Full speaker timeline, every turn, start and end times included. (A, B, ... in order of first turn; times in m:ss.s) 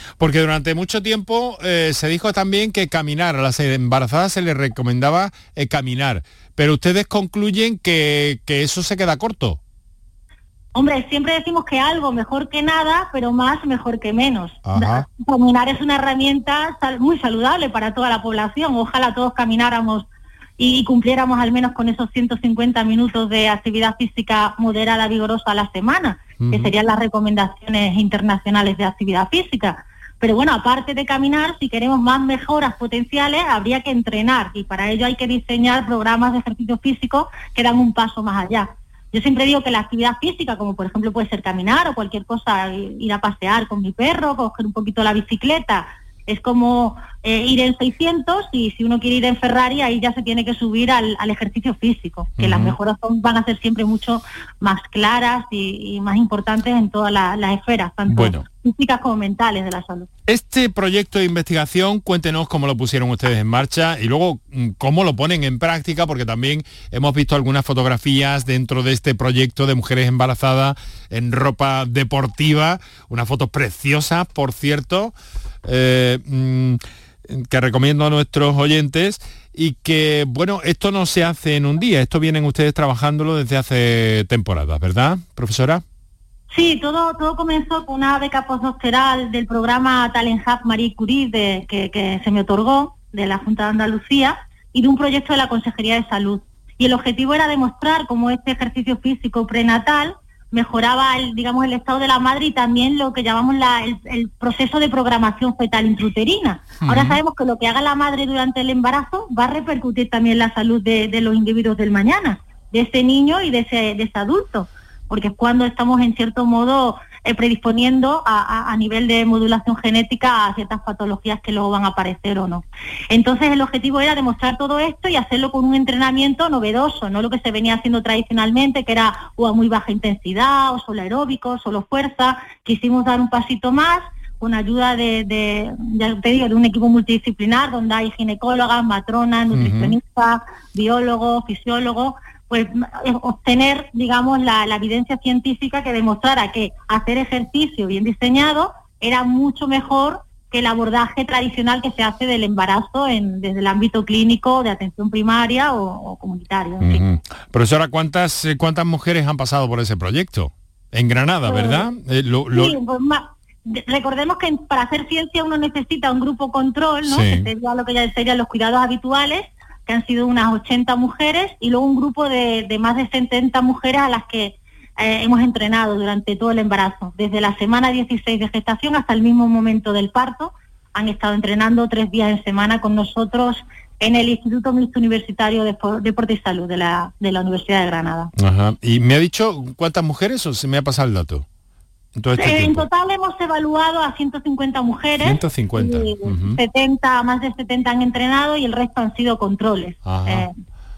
0:00.2-0:09.6 A
0:10.8-0:20.1 B
0:14.7-0:15.1 A
0:20.6-1:00.1 B
0:26.4-0:26.7 A
0:52.4-0:52.8 A
0:58.1-0:58.4 A
1:00.3-1:15.1 A
1:15.7-1:25.8 A
1:26.5-2:37.0 B
1:46.8-1:47.2 A
2:19.5-2:20.0 A
2:36.8-2:42.8 A
2:41.5-2:41.9 B
2:42.5-3:08.3 B
2:47.1-2:47.5 A
3:08.4-3:11.5 A
3:12.2-3:12.9 A
3:12.4-3:20.5 B
3:15.2-3:16.6 A
3:20.0-3:20.5 A